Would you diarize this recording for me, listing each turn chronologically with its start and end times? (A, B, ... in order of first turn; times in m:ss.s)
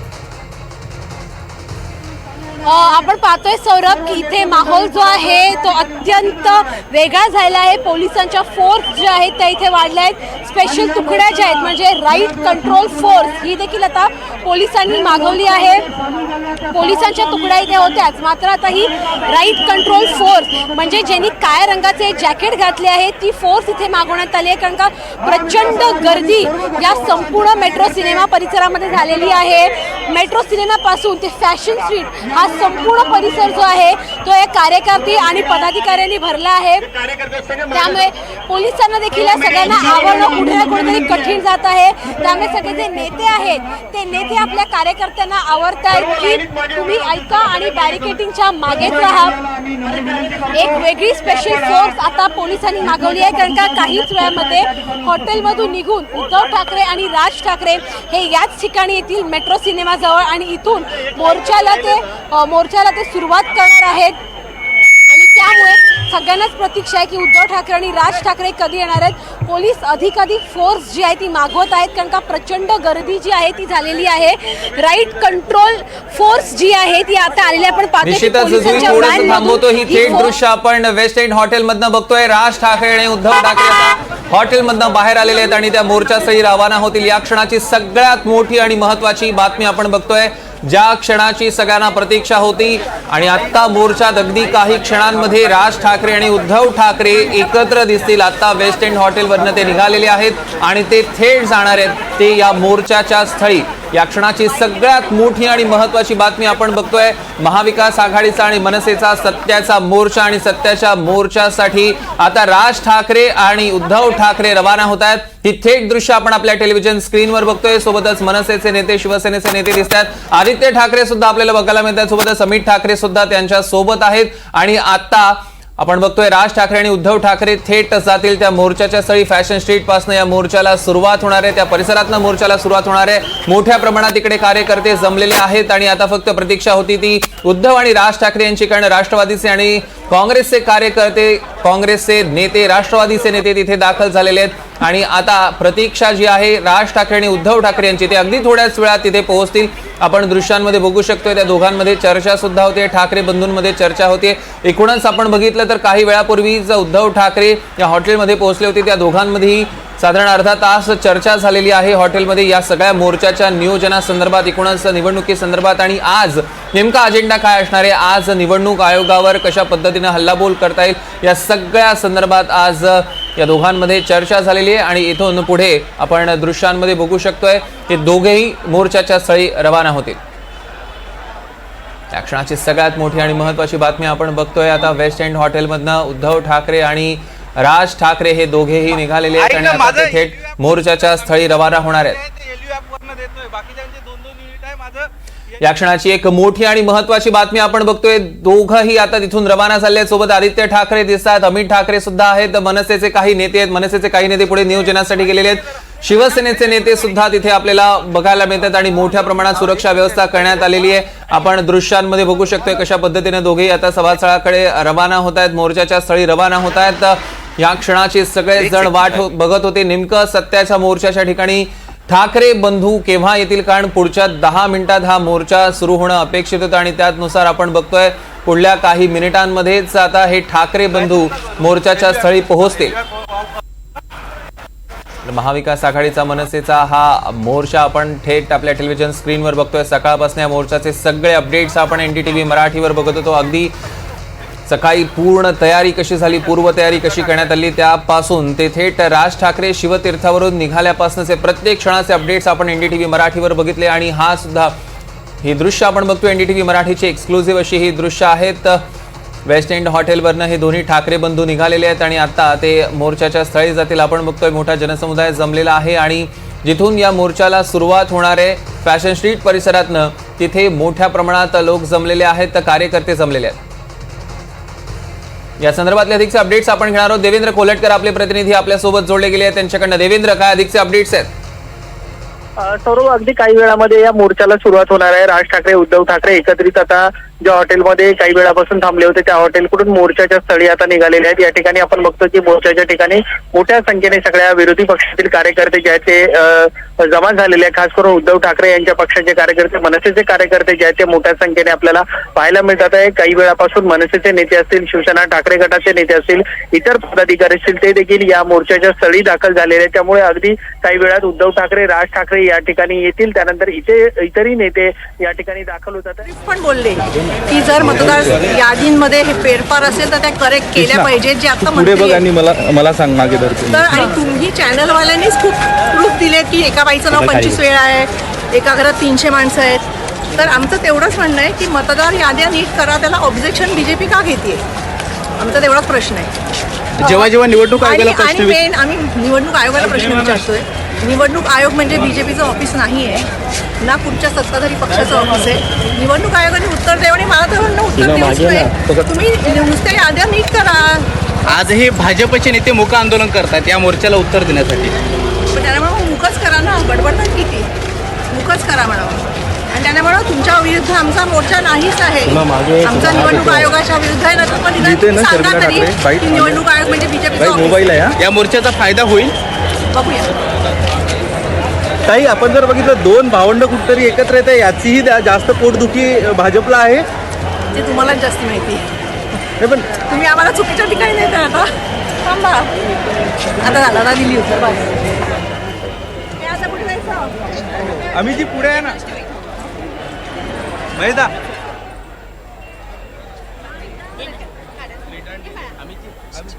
0:02.6-0:15.8 A
0:16.7-0:36.9 A
0:37.6-1:04.2 A
1:05.1-1:20.3 A
1:18.0-3:00.2 B
3:02.1-3:12.2 B
3:14.7-3:15.1 C
3:15.6-3:53.0 B
3:55.2-4:03.7 B
4:04.7-4:14.8 B
4:15.4-4:18.8 B
4:19.4-4:33.6 B
4:35.6-4:41.3 B
4:42.6-5:16.3 D
5:16.3-5:22.2 E
5:18.0-5:18.5 F
5:20.7-5:24.2 F
5:23.7-5:34.6 E
5:35.4-5:36.3 E
5:37.0-5:43.3 E
5:37.2-5:38.5 C
5:43.8-5:51.1 E
5:51.5-5:54.9 C
5:55.5-5:57.7 E
5:58.3-6:08.0 E
6:04.7-6:06.7 F
6:07.3-6:08.2 F
6:08.5-6:09.3 C
6:09.9-6:10.3 E
6:12.1-6:17.0 F
6:17.7-6:18.9 E
6:19.6-6:20.0 F
6:20.0-6:21.7 E
6:22.2-6:22.7 E
6:23.6-6:25.2 E
6:26.4-6:27.3 E
6:28.1-6:29.0 F
6:31.0-6:31.3 F